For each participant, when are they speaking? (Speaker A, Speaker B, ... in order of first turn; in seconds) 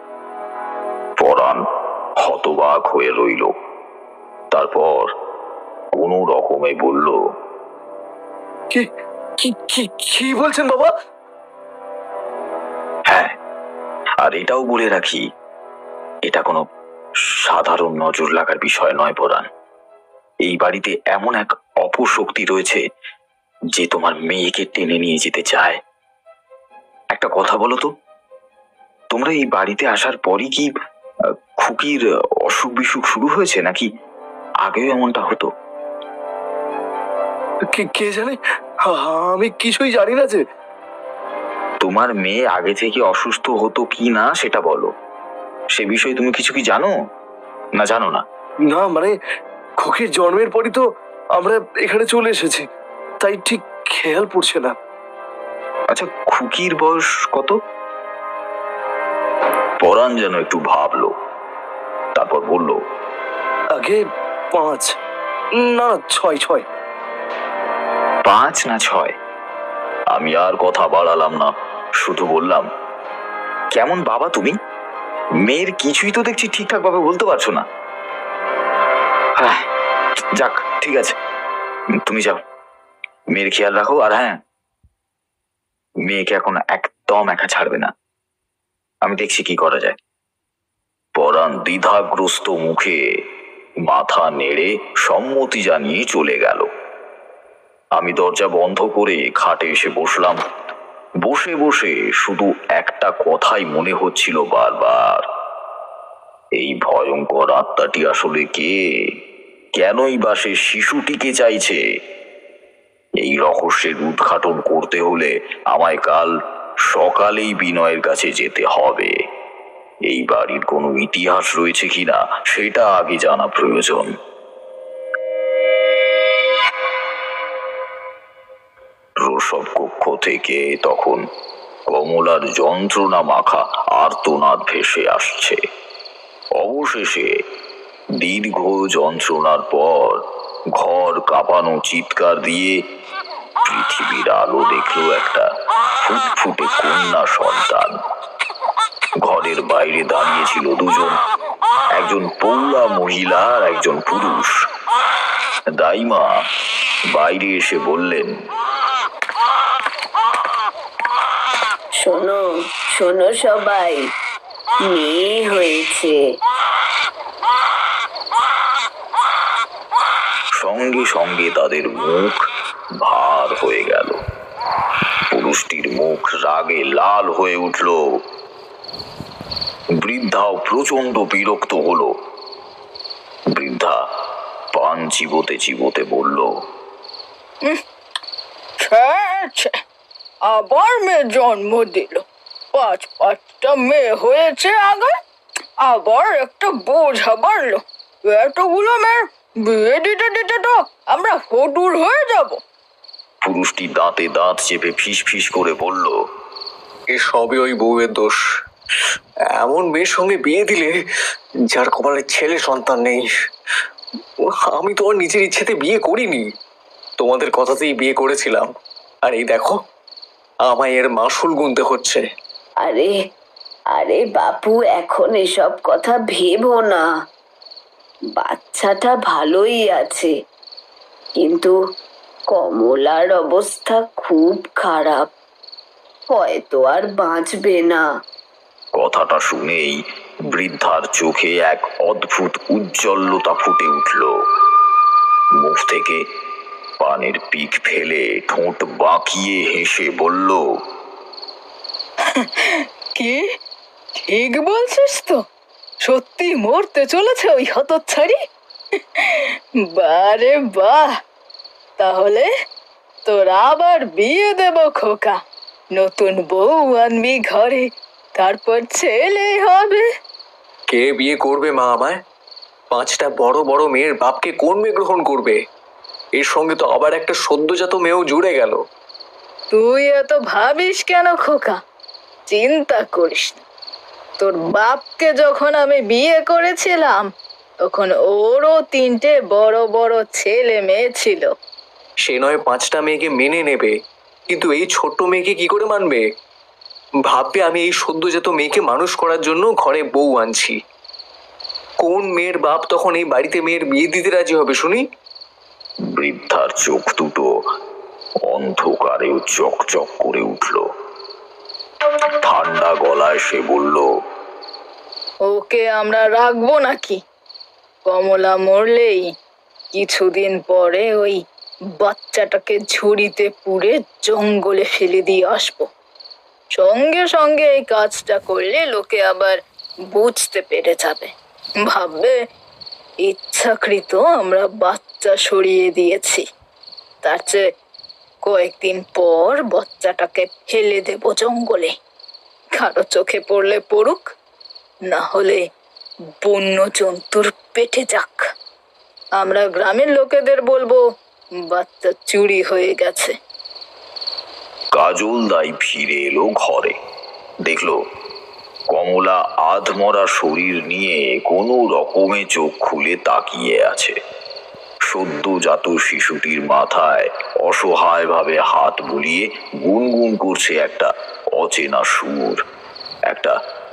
Speaker A: 1.2-1.6, 2.2-3.5, 4.5-5.1, 6.0-7.2, 13.1-13.3, 14.2-15.2, 16.3-16.6, 17.4-19.5, 20.4-22.8, 23.7-25.8, 27.1-27.9, 29.1-30.7, 31.6-33.9, 34.6-35.5, 41.8-44.9, 45.8-46.9, 47.8-48.2, 55.9-57.6, 59.8-61.1, 62.2-62.8, 68.3-69.2, 70.1-72.7, 73.7-74.6, 75.4-77.7, 79.4-79.7, 80.3-81.2, 82.0-82.4, 83.3-84.4, 86.0-87.9, 89.0-90.0, 91.2-93.0, 93.9-96.7, 98.0-100.4, 101.2-105.3, 106.6-108.7, 109.8-111.8, 113.2-116.3, 116.9-119.1, 120.1-124.1, 129.2-131.2, 131.9-135.6, 136.6-137.3, 138.2-142.8, 143.7-145.5, 146.0-147.9, 149.2-151.2, 151.9-154.5, 155.8-156.3, 157.1-158.3, 170.6-172.4, 173.0-174.2, 175.3-178.2, 180.0-182.2, 183.5-184.0, 184.7-186.5, 203.4-206.2, 239.0-240.0, 240.5-244.3, 245.6-246.3, 247.0-250.6, 306.1-307.5, 308.5-310.8, 312.3-314.1, 354.9-357.0, 357.6-358.0, 358.9-364.2, 365.1-372.6, 373.3-373.6
Speaker B: 8.7-10.9, 37.7-40.4, 48.7-49.1, 49.8-50.8, 51.4-52.6, 53.2-54.7, 63.8-64.0, 64.5-64.9, 65.6-66.7
Speaker C: 162.0-164.1, 164.9-166.2, 222.8-223.2, 223.9-227.1, 228.4-230.3, 231.4-231.8, 232.5-235.3, 236.3-238.1
Speaker D: 188.8-189.8, 190.5-195.1, 195.8-202.6, 252.3-253.4, 254.2-255.4, 256.1-258.4, 259.2-261.2, 262.0-262.5, 263.2-265.4, 266.0-270.1, 279.7-281.8, 282.5-283.6, 284.4-287.3, 287.9-291.5, 315.5-317.2, 318.1-319.3, 319.9-321.4, 322.0-325.9, 326.8-329.6, 330.1-331.3, 331.9-332.4, 333.2-336.4, 337.2-337.7, 338.4-341.9, 342.8-344.3, 345.1-345.6, 346.4-348.5, 349.4-351.0, 351.7-353.4
Speaker E: 207.1-208.4, 209.6-210.9, 211.7-213.2, 214.7-216.4, 217.2-218.7, 219.3-219.8, 220.7-222.2, 270.9-272.2, 272.9-275.6, 276.4-278.8, 292.3-293.9, 294.5-296.2, 297.3-300.8, 302.0-305.0